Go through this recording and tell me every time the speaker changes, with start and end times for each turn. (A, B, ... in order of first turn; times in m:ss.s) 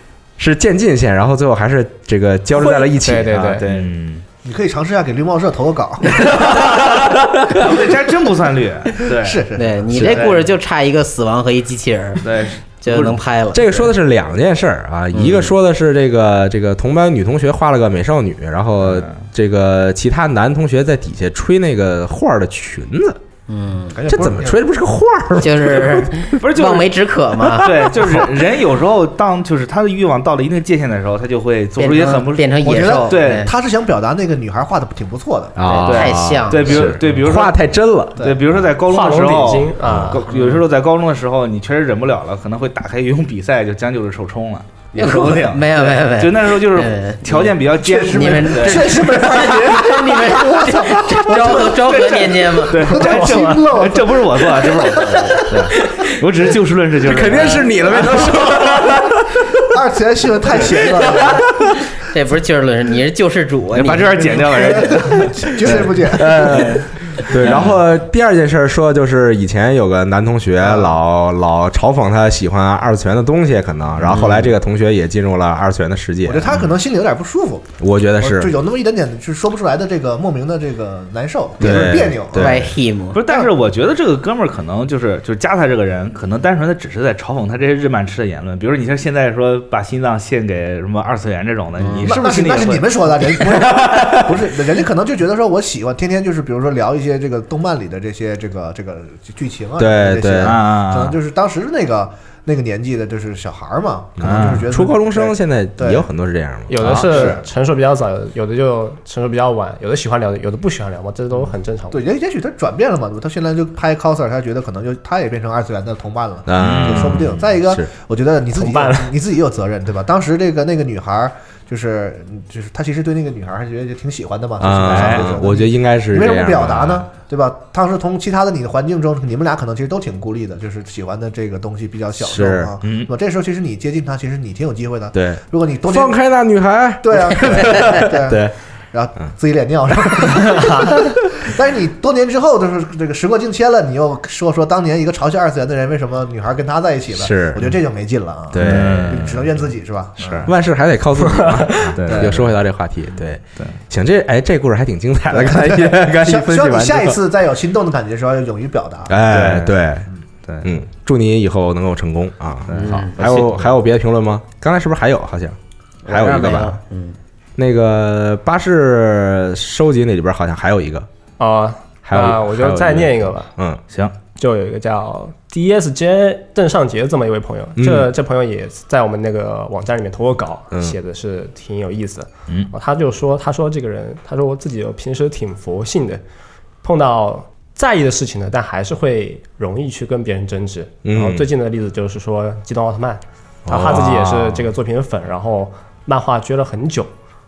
0:00.4-0:03.8 A
0:02.5-0:03.7 B
0:03.3-0:04.2 C
0:04.4-0:06.8 D
0:06.4-0:10.5 C
0:09.1-0:09.8 D
0:09.6-0:12.2 E
0:09.9-0:10.3 A
0:12.2-0:13.2 C
0:12.8-0:13.9 E
0:13.5-0:23.2 A
0:15.1-0:15.5 E
0:18.8-0:19.2 C
0:23.5-0:24.0 E
0:23.9-0:24.6 D
0:24.1-0:26.3 A
0:25.4-0:28.2 E
0:26.4-0:27.0 C
0:27.5-0:33.5 C
0:31.8-0:33.5 E
0:32.6-0:35.6 D
0:35.6-0:38.4 A
0:35.6-0:37.0 E
0:35.8-0:37.6 C
0:38.2-0:49.0 C
0:38.8-0:40.2 B
0:39.8-0:40.2 A
0:40.3-0:40.6 E
0:44.9-0:53.0 E
0:47.8-0:55.5 D
0:52.7-0:58.2 C
0:53.0-0:53.6 B
0:55.0-0:56.1 E
0:57.0-0:59.6 A
0:59.7-1:01.5 D
1:01.0-1:01.8 A
1:02.0-1:05.2 E
1:03.7-1:05.8 C
1:04.6-1:06.6 D
1:06.1-1:16.6 A
1:07.2-1:07.8 C
1:10.6-1:11.0 D
1:14.0-1:14.5 E
1:16.2-1:22.6 D
1:17.8-1:18.5 A
1:21.6-1:22.7 A
1:21.6-1:23.2 E
1:23.1-1:33.4 C
1:31.8-1:32.3 E
1:32.0-1:46.1 D
1:33.5-1:34.4 A
1:39.8-1:40.6 A
1:40.4-1:41.2 C
1:44.2-1:47.0 A
1:44.2-1:44.7 C
1:46.7-1:52.0 B
1:46.9-1:47.4 D
1:51.9-2:16.2 D
1:56.5-1:57.9 A
1:56.6-1:57.4 C
1:58.5-1:59.1 B
2:04.6-2:07.1 A
2:04.9-2:05.3 C
2:12.2-2:12.7 A
2:12.8-2:13.1 C
2:15.1-2:18.5 A
2:17.0-2:30.5 D
2:20.1-2:20.9 A
2:20.5-2:20.8 B
2:27.1-2:27.7 A
2:28.5-2:29.4 A
2:28.6-2:29.5 C
2:30.2-2:30.5 C
2:30.4-2:37.2 A
2:31.2-2:31.9 B
2:31.9-2:32.5 C
2:32.0-2:32.4 D
2:35.3-2:39.2 D
2:39.1-2:40.1 A
2:39.3-2:39.8 C
2:40.4-2:40.7 C
2:40.6-2:46.8 A
2:42.7-2:43.6 C
2:42.7-2:43.2 E
2:46.0-2:47.2 E
2:47.6-2:51.1 A
2:51.4-2:53.5 B
2:52.0-2:53.8 A
2:54.4-3:06.2 B
2:57.8-2:58.1 A
3:06.8-3:17.1 B
3:11.0-3:11.4 A
3:13.6-3:14.6 A